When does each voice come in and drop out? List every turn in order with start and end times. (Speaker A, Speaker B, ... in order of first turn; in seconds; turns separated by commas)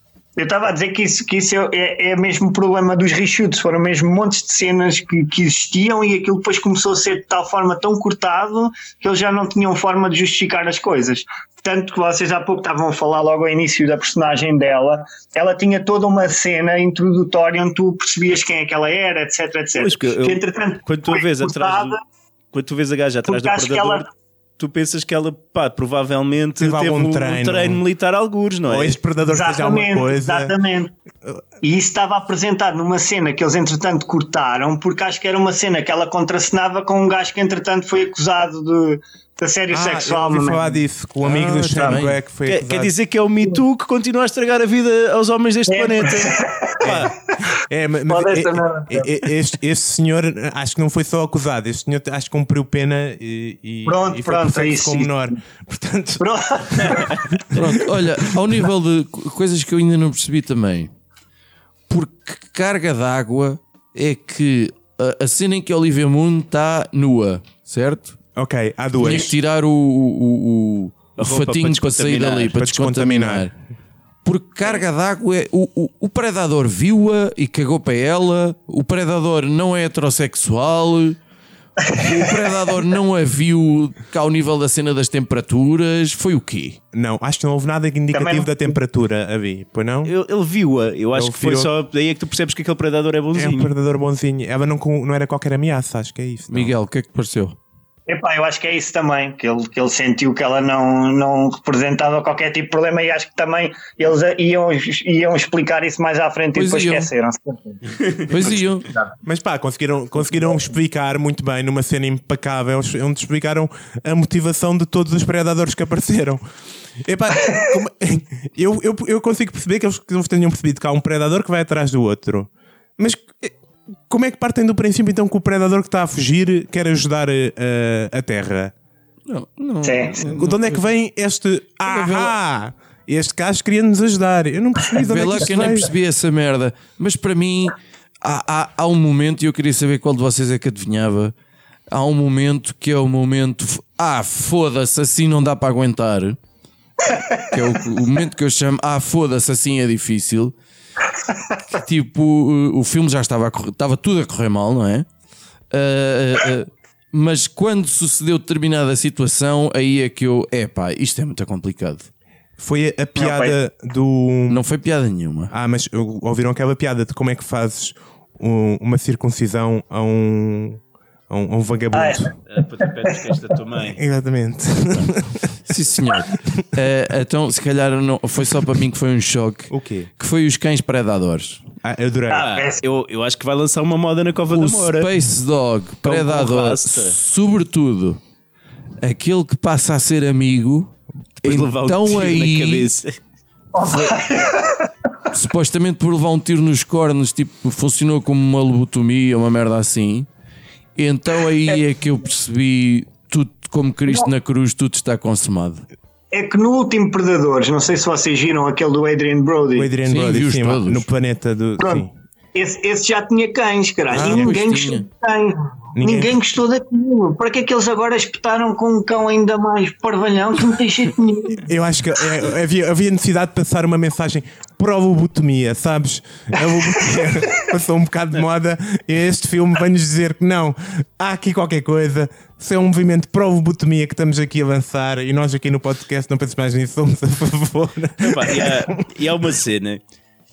Speaker A: 0.4-22.0, Speaker B: 19.7-22.0, Speaker B: 22.5-24.1, Speaker A: 23.2-24.1, Speaker B: 24.6-29.0, Speaker C: 26.6-27.8, Speaker C: 28.7-30.5, Speaker A: 29.2-30.9, Speaker A: 31.6-40.8, Speaker C: 39.7-42.9, Speaker D: 41.2-42.2, Speaker B: 42.5-47.1, Speaker A: 45.7-47.4, Speaker C: 46.8-58.0, Speaker A: 48.1-49.3, Speaker A: 53.9-55.1, Speaker A: 56.2-57.5, Speaker D: 57.5-60.9, Speaker D: 61.9-68.2, Speaker C: 68.3-69.3, Speaker D: 68.9-73.5, Speaker B: 71.2-72.5, Speaker C: 72.5-73.5, Speaker D: 74.2-81.2, Speaker A: 81.8-82.3, Speaker D: 81.9-86.8, Speaker C: 86.9-90.1, Speaker A: 88.1-88.7, Speaker B: 90.0-93.7, Speaker C: 91.1-91.7, Speaker C: 93.3-96.7, Speaker D: 96.5-97.6, Speaker A: 98.1-109.1, Speaker D: 106.5-107.1, Speaker D: 108.3-108.9, Speaker C: 109.2-116.4, Speaker C: 117.0-123.5, Speaker C: 124.1-128.7, Speaker D: 129.3-130.8, Speaker A: 129.8-130.3, Speaker C: 130.3-135.9, Speaker D: 131.8-132.3, Speaker D: 135.0-141.3, Speaker D: 141.9-146.4, Speaker D: 147.3-150.5, Speaker A: 151.3-151.6, Speaker D: 151.7-155.1, Speaker D: 155.7-162.1, Speaker C: 162.6-164.6, Speaker A: 163.2-163.6, Speaker D: 164.5-165.5, Speaker C: 165.5-172.3, Speaker A: 171.9-173.3, Speaker B: 172.5-174.0, Speaker C: 173.9-175.6, Speaker D: 175.7-181.6, Speaker C: 179.7-180.1, Speaker C: 181.8-182.5, Speaker A: 182.3-182.8, Speaker B: 182.3-185.1, Speaker D: 184.5-188.2, Speaker B: 186.0-187.2, Speaker D: 189.0-192.9, Speaker B: 191.4-193.2, Speaker A: 193.7-194.9, Speaker D: 193.8-194.1, Speaker D: 195.3-200.3, Speaker D: 200.9-205.8, Speaker A: 206.3-209.9, Speaker C: 209.7-212.1, Speaker D: 210.1-211.1, Speaker A: 211.8-221.7, Speaker C: 214.1-214.6, Speaker D: 214.1-215.1, Speaker C: 215.9-216.4, Speaker C: 221.6-239.0, Speaker B: 238.2-240.0